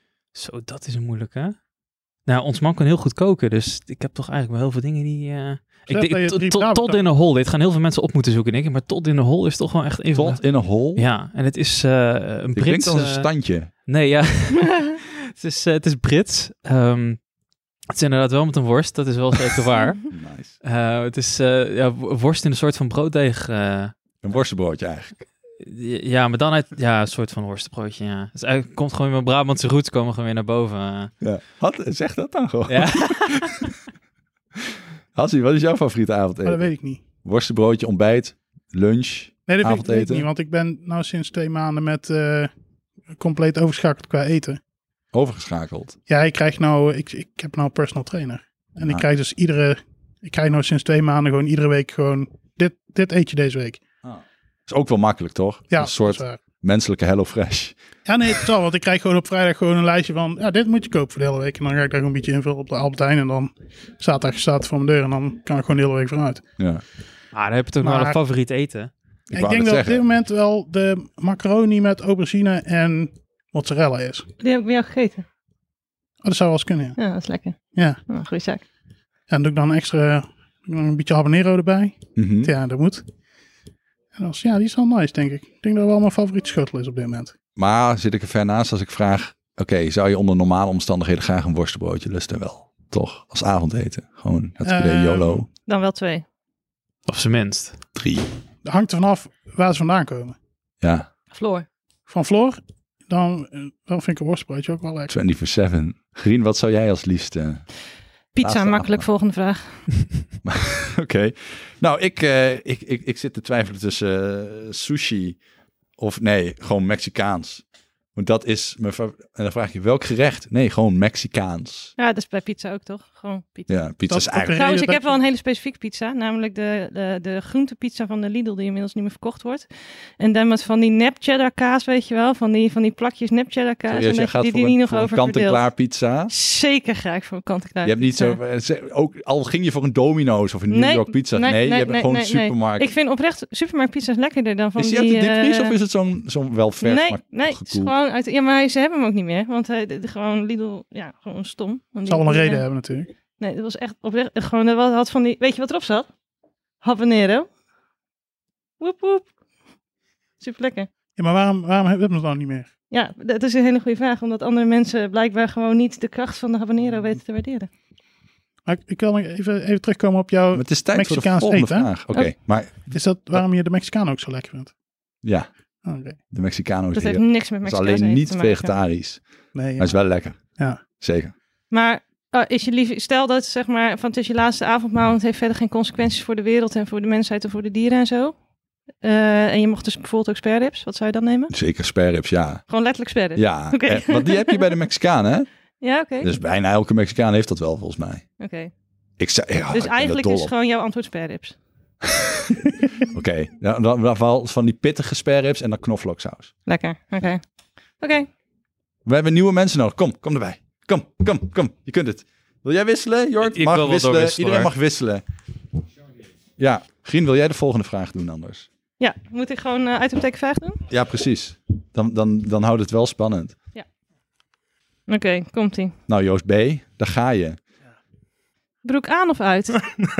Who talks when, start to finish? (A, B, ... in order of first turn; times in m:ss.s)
0:00.3-0:01.6 A
0:02.2-0:13.3 A
0:05.9-0:07.0 B
0:10.1-0:11.0 C
0:12.5-0:13.7 C
0:13.9-0:17.2 A
0:17.9-0:20.1 A
0:20.1-0:20.6 C
0:20.6-0:23.9 A
0:24.2-0:25.2 C
0:25.6-0:31.1 A
0:31.2-0:33.7 C
0:32.7-0:33.5 A
0:35.1-0:36.7 C
0:36.4-0:37.0 B
0:37.2-0:40.3 C
0:39.5-0:42.5 B
0:43.2-0:44.6 B
0:45.1-0:46.0 C
0:46.1-0:53.8 B
0:54.0-0:57.8 C
0:55.7-0:56.4 B
0:58.0-1:06.4 B
1:06.6-1:06.8 C
1:07.3-1:08.9 A
1:07.8-1:08.2 B
1:09.3-1:10.0 C
1:09.3-1:14.2 B
1:14.4-1:15.2 D
1:16.2-1:17.0 B
1:17.0-1:18.6 D
1:17.7-1:18.0 B
1:19.3-1:23.0 B
1:22.2-1:22.5 C
1:24.1-1:27.3 B
1:27.6-1:35.5 C
1:34.6-1:35.4 B
1:35.7-1:36.2 D
1:37.1-1:37.8 A
1:38.0-1:38.3 C
1:38.6-1:40.4 B
1:40.8-1:41.1 C
1:41.4-1:41.6 D
1:42.1-1:45.1 B
1:45.1-1:47.6 C
1:48.3-1:49.9 D
1:48.4-1:49.1 C
1:50.4-1:55.4 C
1:56.0-1:57.6 C
1:58.1-2:01.9 C
2:02.0-2:03.8 D
2:03.7-2:04.6 C
2:04.1-2:05.1 B
2:04.5-2:09.7 D
2:10.2-2:15.6 D
2:13.9-2:16.3 C
2:16.3-2:18.4 D
2:17.8-2:22.9 C
2:20.7-2:25.7 D
2:24.8-2:27.9 C
2:26.8-2:32.6 D
2:32.0-2:33.1 B
2:33.4-2:36.1 D
2:36.8-2:37.5 D
2:38.8-2:39.3 D
2:40.4-2:40.9 D
2:41.2-2:42.7 B
2:42.9-2:47.7 D
2:48.6-2:51.9 B
2:50.5-2:53.4 C
2:52.9-2:54.7 B
2:55.2-2:55.5 C
2:55.8-2:56.2 B
2:56.3-2:59.2 C
2:56.9-2:58.7 D
2:59.5-2:59.9 B
2:59.8-3:00.4 C
3:00.6-3:00.8 B
3:00.9-3:01.3 C
3:01.7-3:08.3 D
3:09.0-3:11.5 D
3:11.5-3:12.6 C
3:12.7-3:14.8 D
3:13.3-3:15.5 C
3:15.8-3:16.3 D
3:16.2-3:18.2 C
3:18.4-3:18.7 D
3:19.2-3:20.5 C
3:19.7-3:21.6 D
3:22.1-3:26.5 C
3:26.6-3:27.4 D
3:28.0-3:28.3 D
3:29.0-3:35.2 C
3:33.4-3:34.7 A
3:36.6-3:38.7 C
3:39.0-3:40.8 D
3:40.9-3:43.6 C
3:45.1-3:45.9 D
3:46.1-3:47.6 C
3:48.8-3:49.9 D